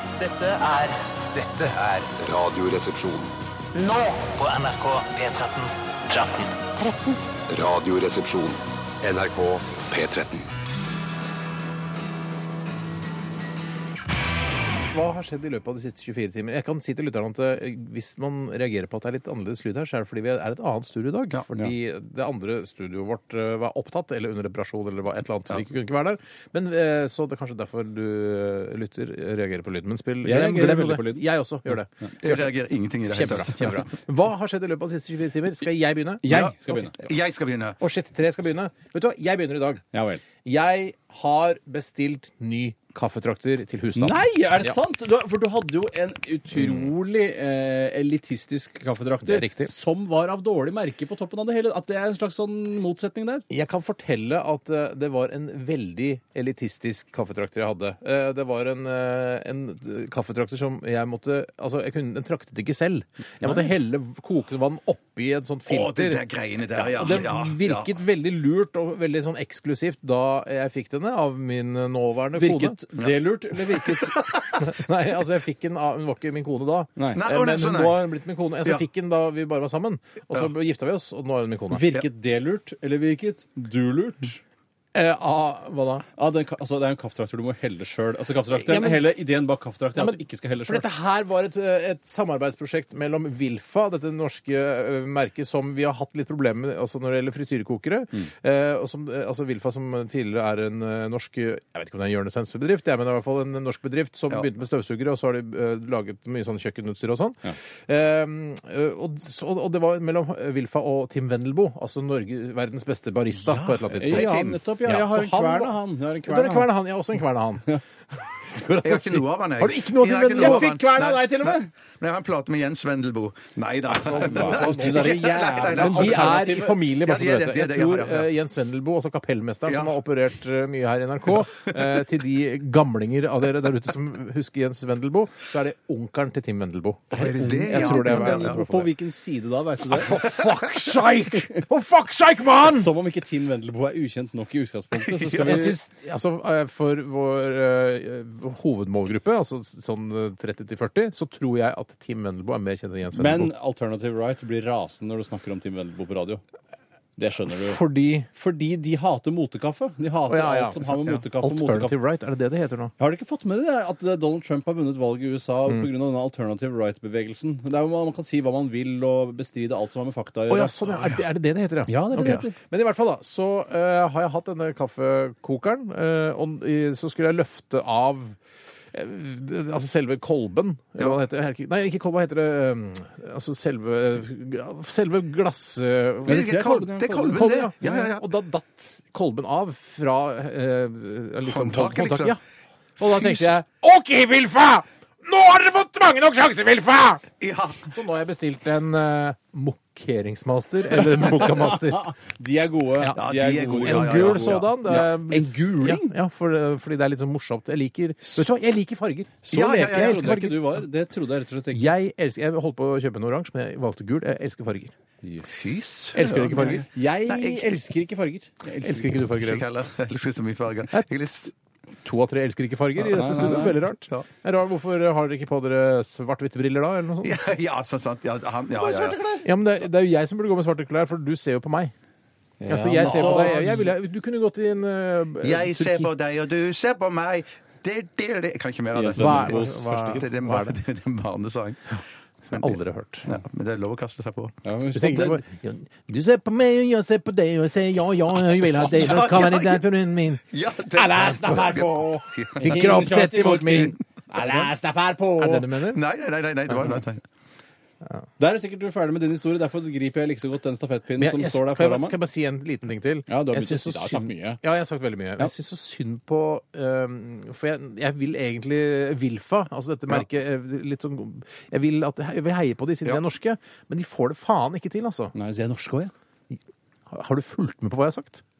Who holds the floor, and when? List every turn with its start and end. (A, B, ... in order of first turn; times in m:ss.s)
0:00.2-0:02.1 A
0:02.2-0:03.4 B
0:03.8-0:07.1 A
0:07.5-0:10.5 B
0:14.9-0:32.5 C
0:30.2-0:31.3 D
0:32.2-0:33.9 E
0:33.1-0:36.3 C
0:36.2-0:37.0 D
0:36.2-0:37.8 E
0:37.8-0:39.8 C
0:39.9-0:40.2 D
0:40.4-0:44.8 C
0:43.9-0:53.4 D
0:46.5-0:46.9 C
0:49.2-0:49.7 C
0:53.5-1:12.8 C
1:03.4-1:03.7 D
1:05.7-1:07.9 E
1:12.4-1:14.1 D
1:13.8-1:21.9 C
1:17.0-1:17.2 D
1:17.1-1:18.1 E
1:21.7-1:24.4 D
1:24.9-1:26.0 C
1:26.2-1:30.9 D
1:28.5-1:29.1 C
1:30.0-2:01.6 C
1:53.3-1:54.6 E
1:54.0-1:56.7 D
1:58.8-2:08.3 E
2:00.4-2:01.7 D
2:03.9-2:18.8 C
2:04.2-2:06.8 D
2:09.7-2:09.9 E
2:17.1-2:18.8 E
2:17.2-2:20.2 D
2:19.9-2:22.9 C
2:22.6-2:25.8 D
2:25.3-2:33.5 C
2:33.2-2:36.4 D
2:37.2-2:37.8 D
2:37.5-2:38.3 C
2:38.3-2:42.0 D
2:40.3-2:42.9 C
2:43.0-2:50.8 D
2:50.5-2:58.4 C
2:50.9-2:51.2 E
2:51.9-2:52.5 D
2:52.2-2:52.4 E
2:58.9-3:12.4 C
3:06.2-3:07.4 D
3:06.2-3:08.2 E
3:11.4-3:12.4 E
3:13.0-3:17.2 C
3:13.1-3:13.5 E
3:17.4-3:17.9 E
3:17.9-3:22.2 C
3:21.3-3:26.1 D
3:23.1-3:24.7 E
3:23.8-3:30.8 C
3:29.4-3:30.4 E
3:29.5-3:31.9 D
3:31.7-3:34.9 C
3:35.4-3:37.8 E
3:36.1-3:36.9 C
3:36.5-3:39.3 D
3:38.8-3:39.6 C
3:39.3-3:41.5 E
3:42.0-3:47.4 C
3:43.0-3:43.8 D
3:47.2-3:49.2 E
3:48.8-3:49.5 D
3:49.4-3:51.9 C
3:52.6-3:53.9 D
3:52.7-3:56.1 C
3:52.9-3:53.8 E
3:55.4-4:04.6 E
3:58.9-4:00.3 D
3:59.1-4:00.8 C
4:02.5-4:03.3 C
4:04.6-4:05.4 D
4:04.9-4:10.4 C
4:08.6-4:09.8 E
4:10.5-4:13.1 E
4:11.2-4:11.8 D
4:12.6-4:14.0 C
4:12.6-4:15.4 D
4:13.7-4:14.7 E
4:15.4-4:16.0 C
4:15.4-4:17.2 E
4:18.4-4:22.2 D
4:21.2-4:35.3 C
4:23.3-4:24.6 D
4:35.3-4:36.1 D
4:37.1-4:38.4 C